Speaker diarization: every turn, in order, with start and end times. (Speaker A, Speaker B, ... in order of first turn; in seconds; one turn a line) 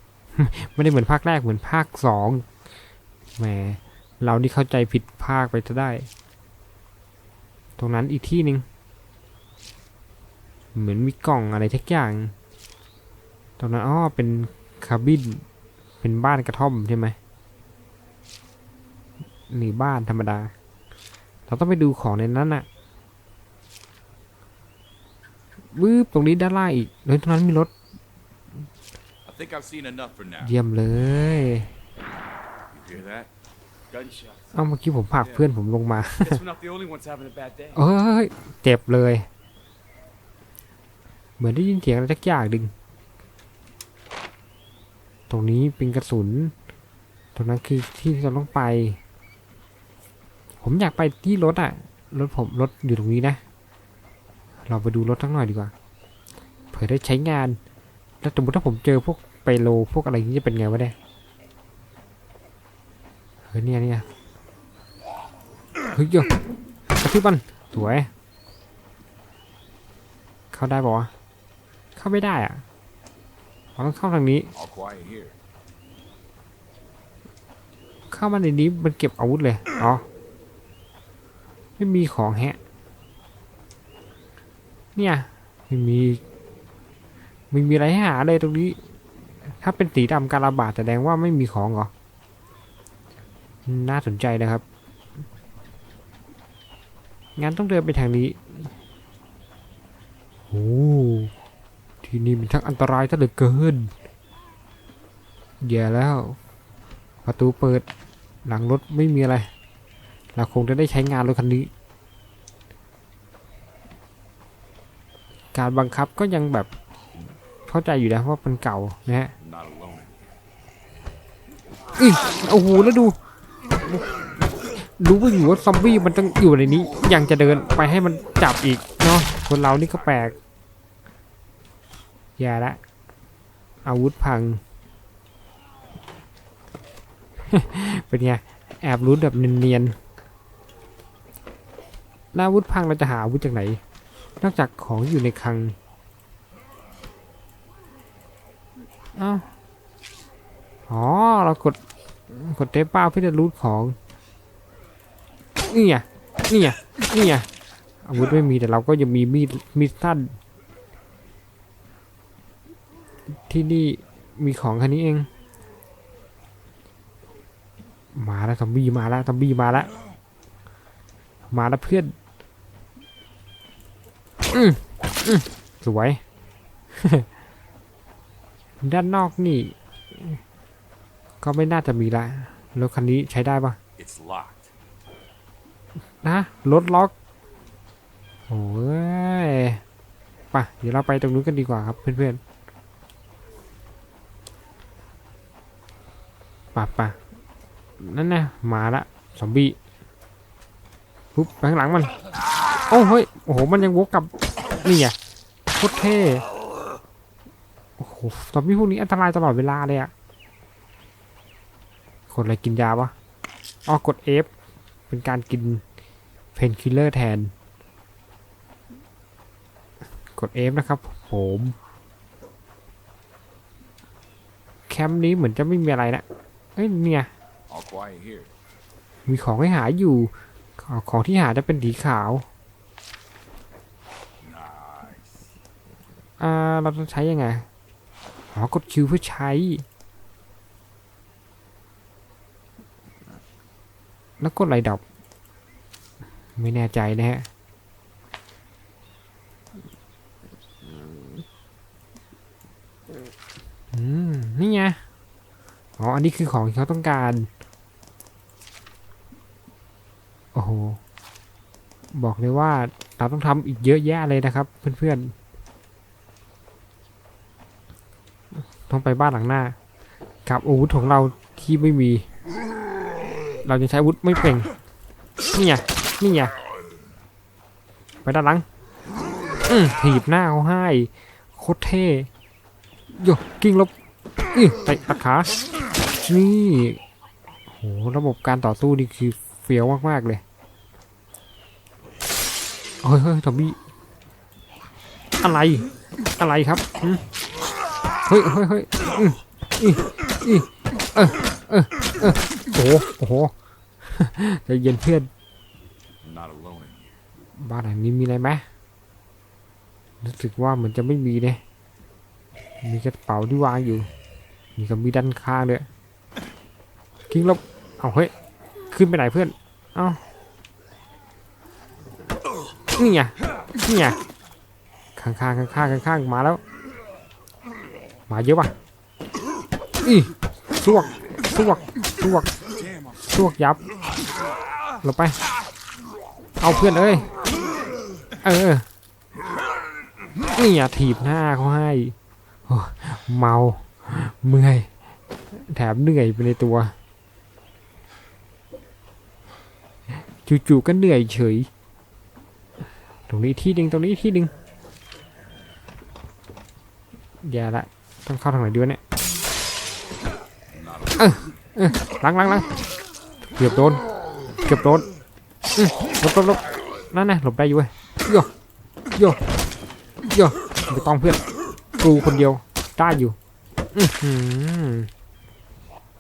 Speaker A: 0.4-2.5
Speaker A: 3.4-6.1
Speaker A: 7.8-8.7
Speaker A: 10.8-12.3
Speaker A: 13.6-15.4
Speaker A: 16.0-17.2
Speaker A: 19.5-20.5
Speaker A: 21.5-22.7
Speaker A: 25.8-27.7
Speaker B: 29.3-30.6
Speaker A: 30.4-31.7
Speaker B: 32.7-33.3
Speaker C: 33.9-34.5
Speaker A: 34.5-36.4
Speaker C: 35.2-35.5
Speaker C: 36.2-37.8
Speaker A: 37.8-39.3
Speaker A: 41.4-42.7
Speaker A: 45.3-46.5
Speaker A: 47.4-49.0
Speaker A: 50.6-53.4
Speaker A: 54.7-55.7
Speaker A: 56.7-57.6
Speaker A: 58.2-61.0
Speaker A: 63.5-64.1
Speaker A: 65.9-66.3
Speaker A: 66.9-68.1
Speaker A: 70.5-71.1
Speaker A: 72.0-72.6
Speaker A: 73.8-74.5
Speaker B: 74.5-75.4
Speaker A: 78.1-80.0
Speaker A: 81.8-82.6
Speaker A: 85.0-86.2
Speaker A: 87.5-88.8
Speaker A: 89.4-91.9
Speaker A: 93.7-94.6
Speaker A: 97.4-98.7
Speaker A: 100.5-101.3
Speaker A: 102.0-103.9
Speaker A: 105.6-106.4
Speaker A: 107.2-107.8
Speaker A: 108.5-109.5
Speaker A: 110.3-111.7
Speaker A: 115.5-116.7
Speaker A: 117.7-119.3
Speaker B: 119.4-120.2
Speaker A: 122.0-123.2
Speaker A: 123.8-130.3
Speaker B: 129.7-130.3
Speaker A: 132.4-132.8
Speaker A: 133.8-134.6
Speaker A: 137.5-140.0
Speaker A: 142.3-143.8
Speaker A: 144.4-145.8
Speaker A: 149.2-149.5
Speaker A: 150.9-151.8
Speaker A: 152.3-154.0
Speaker A: 155.7-157.5
Speaker A: 158.0-160.4
Speaker A: 163.3-165.3
Speaker A: 168.1-169.9
Speaker A: 171.5-172.1
Speaker A: 174.5-176.2
Speaker A: 176.9-177.3
Speaker A: 178.8-180.4
Speaker A: 181.4-183.8
Speaker B: 184.0-184.7
Speaker A: 186.2-187.1
Speaker A: 188.5-189.8
Speaker A: 190.5-192.4
Speaker A: 196.8-197.2
Speaker A: 198.0-199.8
Speaker A: 201.3-202.2
Speaker A: 202.9-205.2
Speaker A: 205.8-206.4
Speaker A: 208.0-210.1
Speaker A: 212.3-213.1
Speaker A: 213.9-214.5
Speaker A: 215.1-215.8
Speaker A: 216.6-217.5
Speaker A: 220.3-221.8
Speaker A: 224.9-226.2
Speaker A: 226.8-227.3
Speaker B: 227.7-228.5
Speaker A: 229.3-232.5
Speaker B: 234.4-235.5
Speaker A: 236.4-237.7
Speaker A: 238.5-239.8
Speaker A: 244.4-245.0
Speaker A: 246.6-247.5
Speaker A: 253.9-255.0
Speaker A: 256.0-257.5
Speaker A: 260.5-261.0
Speaker A: 262.1-265.3
Speaker A: 268.6-269.8
Speaker A: 270.5-272.3
Speaker A: 273.6-274.7
Speaker A: 275.5-276.5
Speaker A: 278.2-278.6
Speaker A: 279.7-282.3
Speaker A: 283.1-283.9
Speaker A: 284.5-285.6
Speaker A: 286.2-287.0
Speaker A: 287.8-290.4
Speaker A: 293.0-293.8
Speaker A: 295.4-295.9
Speaker A: 296.4-297.2
Speaker A: 298.3-303.5
Speaker A: 304.0-305.3
Speaker B: 306.2-307.2
Speaker A: 307.6-308.6
Speaker A: 310.2-311.6
Speaker A: 312.8-314.1
Speaker A: 314.8-315.9
Speaker A: 317.3-318.3
Speaker A: 318.9-320.2
Speaker A: 323.0-324.2
Speaker A: 325.2-326.6
Speaker A: 328.3-328.7
Speaker A: 330.0-332.5
Speaker B: 332.8-333.1
Speaker A: 333.2-333.9
Speaker A: 335.0-335.4
Speaker A: 336.6-337.3
Speaker A: 338.4-338.9
Speaker A: 340.5-342.1
Speaker A: 342.7-344.9
Speaker A: 345.5-346.9
Speaker A: 350.4-351.7
Speaker A: 353.3-354.5
Speaker A: 357.4-359.0
Speaker B: 360.7-361.4
Speaker A: 361.2-362.7
Speaker A: 363.6-364.0
Speaker A: 364.6-365.1
Speaker A: 365.8-368.5
Speaker A: 369.2-369.4
Speaker A: 370.3-371.4
Speaker A: 372.0-373.4
Speaker A: 373.9-375.1